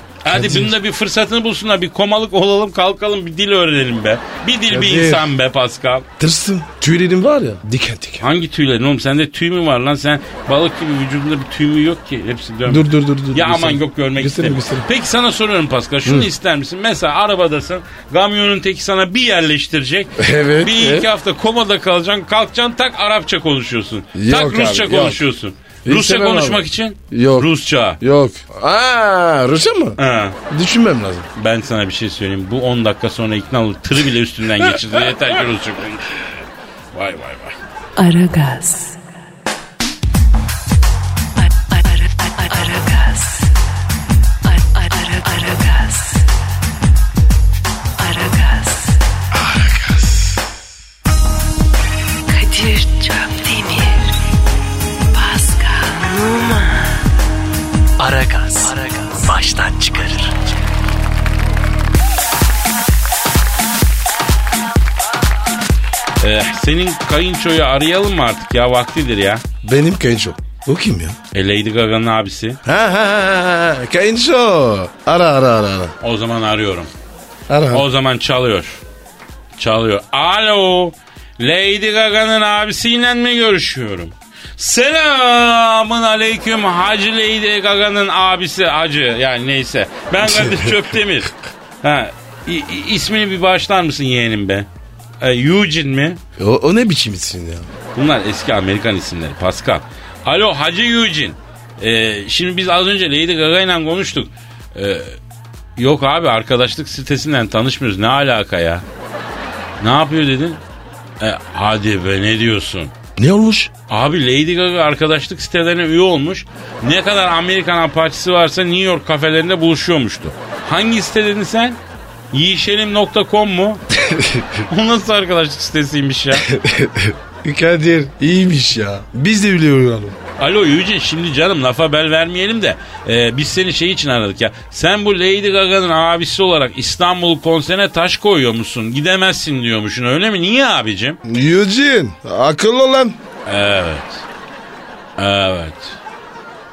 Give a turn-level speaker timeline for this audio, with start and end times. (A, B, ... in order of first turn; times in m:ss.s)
0:00.2-0:06.1 A
0:00.3-0:00.8 B
0:04.7-0:05.3 B
0:06.2-0:08.2 B
0:08.2-0:28.0 A
0:12.7-0:14.9 B
0:16.0-0:16.3 B
0:20.2-0:21.1 B
0:24.1-0:25.2 B
0:25.8-0:31.3 B
0:30.0-0:30.4 A
0:31.4-0:36.1 A
0:36.9-0:37.6 A
0:38.0-0:39.0 C
0:41.4-0:43.5 C
0:44.4-0:46.3 C
0:48.0-0:49.0 C
0:49.3-0:50.4 B
0:52.3-0:54.1 C
0:55.1-0:57.0 C
0:58.0-1:00.3 C
1:06.2-1:09.4 A
1:09.6-1:11.2 B
1:11.3-1:12.6 A
1:12.6-1:16.0 B
1:16.0-1:16.9 A
1:17.5-1:17.9 B
1:17.7-1:18.8 A
1:19.6-1:31.3 A
1:30.2-1:30.9 B
1:31.8-1:34.7 A
1:35.2-1:36.2 A
1:36.4-1:37.7 B
1:37.9-1:45.2 A
1:45.8-1:48.8 A
1:49.8-1:50.6 A
1:51.2-1:52.9 A
1:53.2-1:53.7 B
1:53.9-2:01.8 A
2:02.3-2:03.8 A
2:04.0-2:04.6 B
2:04.7-2:06.4 A
2:06.4-2:10.2 B
2:10.4-2:21.2 A
2:21.3-2:23.2 B
2:23.5-2:24.2 A
2:25.2-2:26.0 A